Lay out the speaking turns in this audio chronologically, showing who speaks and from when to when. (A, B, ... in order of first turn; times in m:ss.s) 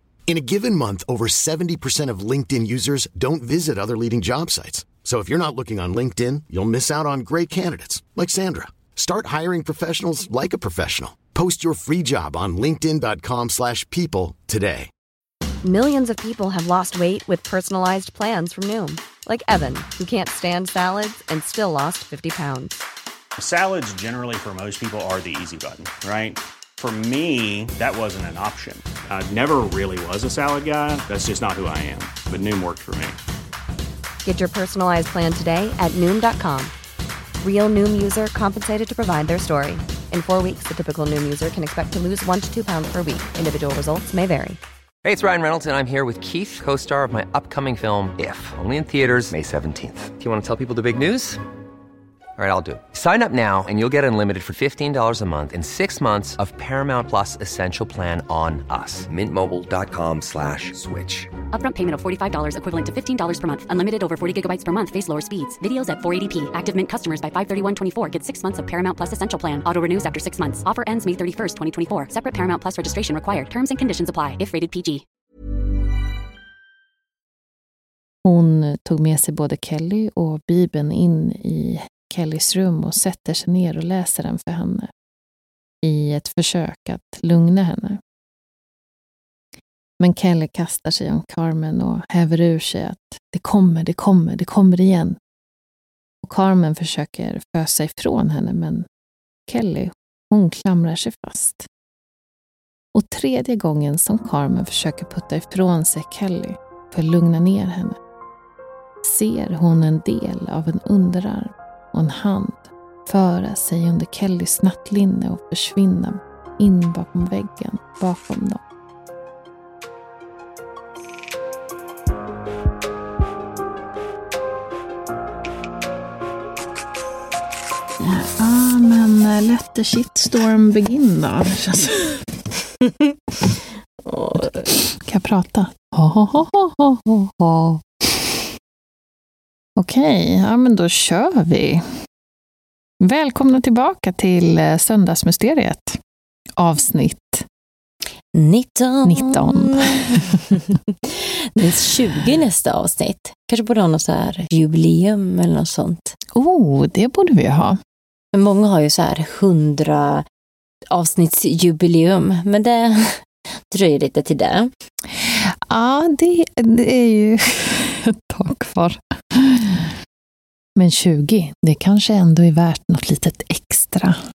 0:00.3-0:14.9 A
0:15.6-0:22.8 B
0:23.4-0:33.2 C
0:34.2-0:36.7 B
0:37.4-0:44.6 B
0:45.0-0:51.4 D
0:52.4-1:01.3 D
1:01.5-1:15.0 E
1:18.2-1:24.9 F
1:25.8-1:28.0 F
1:30.0-1:35.2 F
1:36.2-1:38.9 F
1:39.5-1:41.7 F
1:42.9-1:48.0 F
1:49.0-1:58.6 F
2:08.0-2:12.1 F
2:14.0-2:14.7 G
2:14.9-2:18.4 F
2:19.8-2:21.8 F
2:23.0-2:26.0 F
2:26.6-2:27.4 F
2:28.3-2:36.2 G
2:29.0-2:30.4 F
2:36.3-2:37.8 F
2:38.3-2:40.2 G
2:40.9-2:44.7 G
2:45.2-2:49.9 F
2:50.8-2:54.2 F